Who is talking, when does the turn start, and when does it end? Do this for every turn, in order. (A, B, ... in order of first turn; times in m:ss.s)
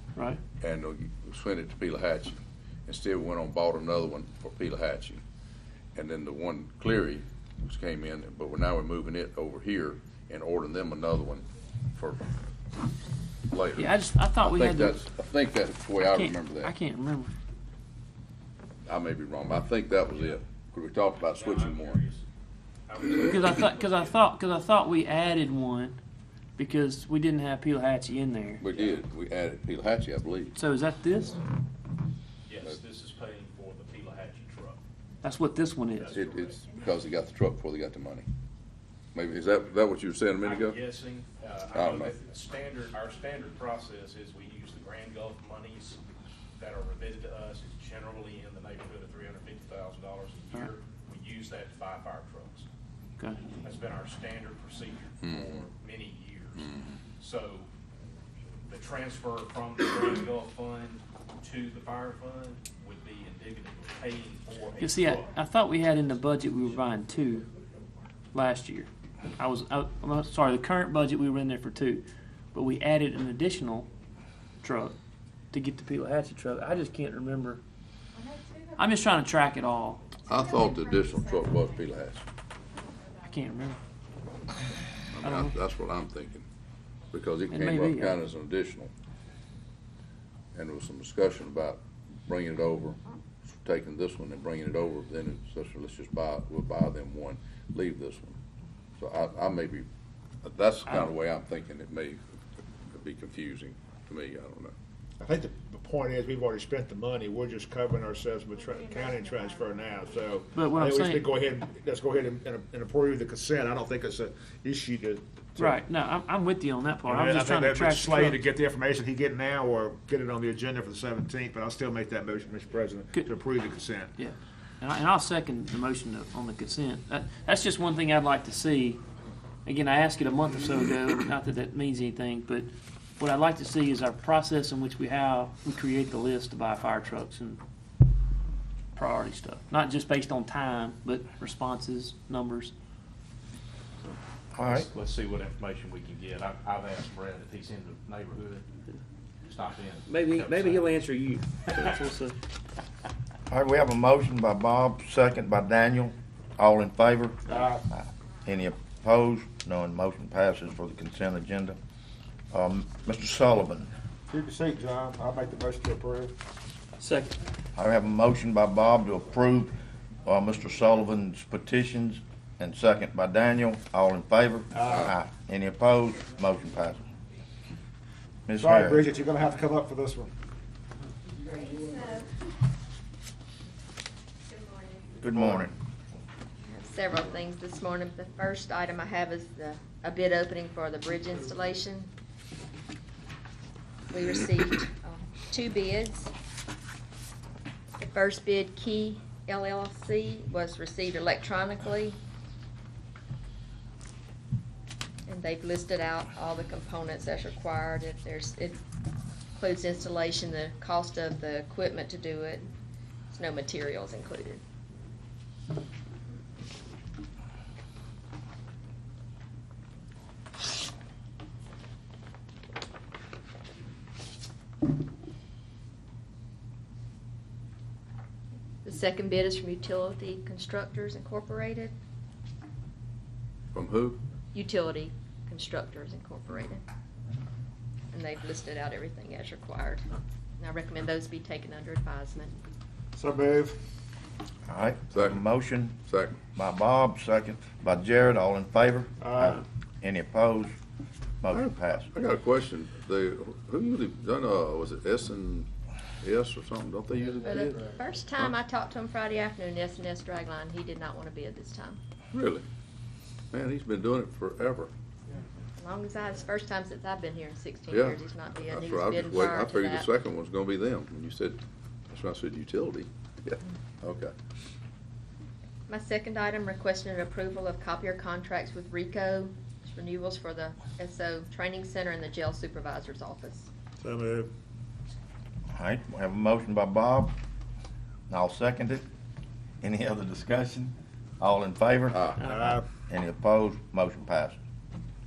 0:00.1-0:00.4 A
0:00.6-0:05.2 B
0:05.9-0:12.2 B
0:13.5-0:16.7 B
0:13.8-0:15.0 A
0:16.0-0:17.3 A
0:18.9-0:22.0 B
0:21.3-0:22.2 C
0:22.9-0:24.3 C
0:23.2-0:26.0 A
0:26.6-0:28.6 A
0:28.6-0:30.5 B
0:28.6-0:29.0 C
0:30.5-0:31.4 A
0:32.4-0:34.8 C
0:35.2-0:36.2 A
0:35.9-0:36.6 C
0:36.1-0:38.2 B
0:39.1-0:40.8 B
0:40.4-0:46.0 C
0:41.7-0:42.1 B
0:46.6-0:52.7 C
0:53.2-0:53.5 A
0:53.5-0:57.7 C
0:55.2-0:55.6 B
0:58.6-1:05.3 C
1:04.8-1:07.5 A
1:08.3-1:13.9 A
1:14.6-1:15.0 A
1:15.5-1:17.6 A
1:18.8-1:20.1 A
1:20.2-1:22.2 B
1:23.2-1:23.8 A
1:25.1-1:26.4 B
1:25.2-1:25.5 A
1:27.1-1:28.9 B
1:27.5-1:28.2 A
1:30.5-1:33.0 B
1:33.5-1:38.4 B
1:39.0-1:39.9 B
1:40.4-1:42.2 B
1:40.8-1:41.1 A
1:42.9-1:44.7 B
1:45.2-1:55.7 D
1:50.5-1:51.2 A
1:55.6-1:58.4 A
1:57.0-2:04.1 D
2:04.2-2:09.0 A
2:09.6-2:17.6 A
2:18.9-2:22.7 A
2:24.5-2:24.9 E
2:24.6-2:28.6 C
2:29.4-2:31.0 C
2:30.1-2:32.4 A
2:31.6-2:31.9 C
2:33.5-2:41.8 E
2:37.5-2:37.8 D
2:42.5-2:43.9 E
2:44.3-2:46.3 D
2:47.0-2:47.3 A
2:47.8-2:57.0 E
2:54.7-2:55.1 D
2:58.5-2:59.1 E
2:58.6-3:00.3 D
3:04.5-3:05.0 F
3:05.2-3:05.7 E
3:06.6-3:12.1 F
3:14.1-3:16.3 F
3:18.0-3:22.2 F
3:25.3-3:28.8 F
3:29.6-3:32.6 F
3:33.3-3:34.6 F
3:48.8-3:51.9 F
3:53.7-3:54.2 B
3:54.5-3:56.8 F
3:58.1-4:00.0 F
4:00.6-4:02.5 F
4:03.1-4:03.8 D
4:04.7-4:06.0 E
4:05.1-4:05.4 B
4:06.0-4:06.4 B
4:06.5-4:10.7 E
4:09.2-4:09.6 D
4:11.4-4:12.1 E
4:11.5-4:15.7 B
4:16.2-4:18.5 B
4:17.4-4:22.0 F
4:22.3-4:22.6 B
4:23.5-4:24.9 B
4:25.8-4:30.1 F
4:27.9-4:31.6 B
4:32.1-4:34.3 B
4:35.9-4:43.7 F
4:44.0-4:44.5 D
4:45.7-4:47.3 E
4:48.3-4:49.0 E
4:49.8-4:54.6 E
4:52.1-4:52.4 B
4:52.4-4:52.8 D